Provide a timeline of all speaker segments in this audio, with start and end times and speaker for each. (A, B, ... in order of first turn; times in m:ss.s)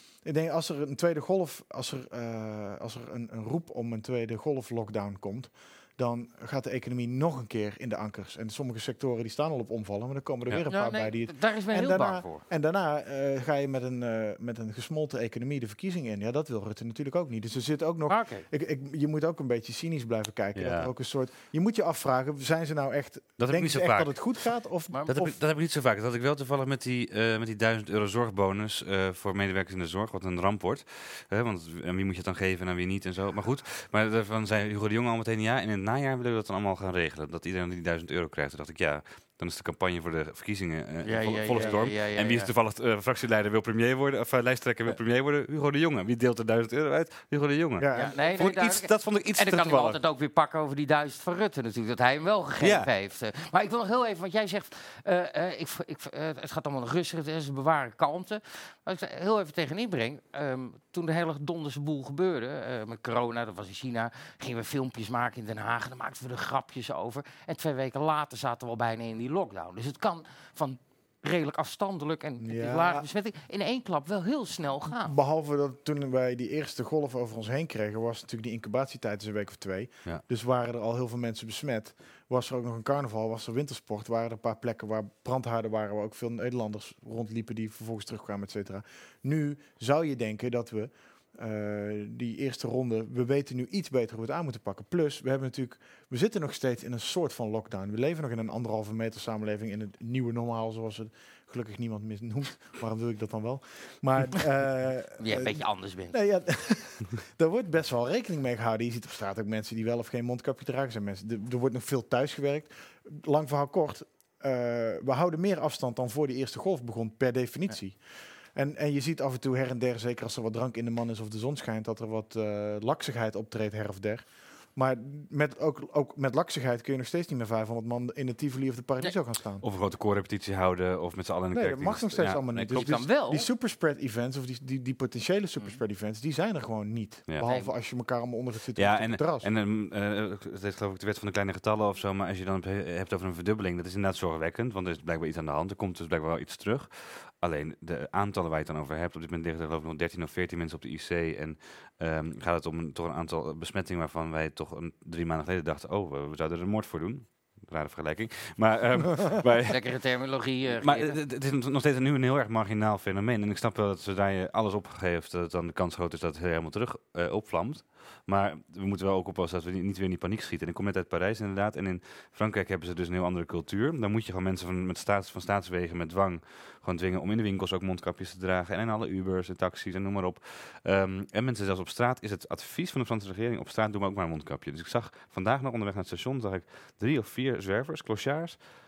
0:00.2-0:25.3 A
0:10.7-0:12.4 B
0:18.1-0:18.5 B
0:20.5-0:20.9 C
0:23.4-0:24.1 C
0:25.1-0:50.0 C
0:41.0-0:42.5 B
0:47.8-0:48.2 A
0:48.0-1:15.1 B
0:52.6-0:52.9 C
1:12.4-1:13.0 A
1:15.0-1:58.0 A
1:45.2-1:46.1 B
1:58.5-2:09.6 A
2:09.6-2:13.0 C
2:11.5-2:19.5 A
2:12.7-2:13.5 B
2:17.4-2:17.7 B
2:18.8-2:39.8 C
2:39.7-2:41.2 B
2:40.8-3:08.6 C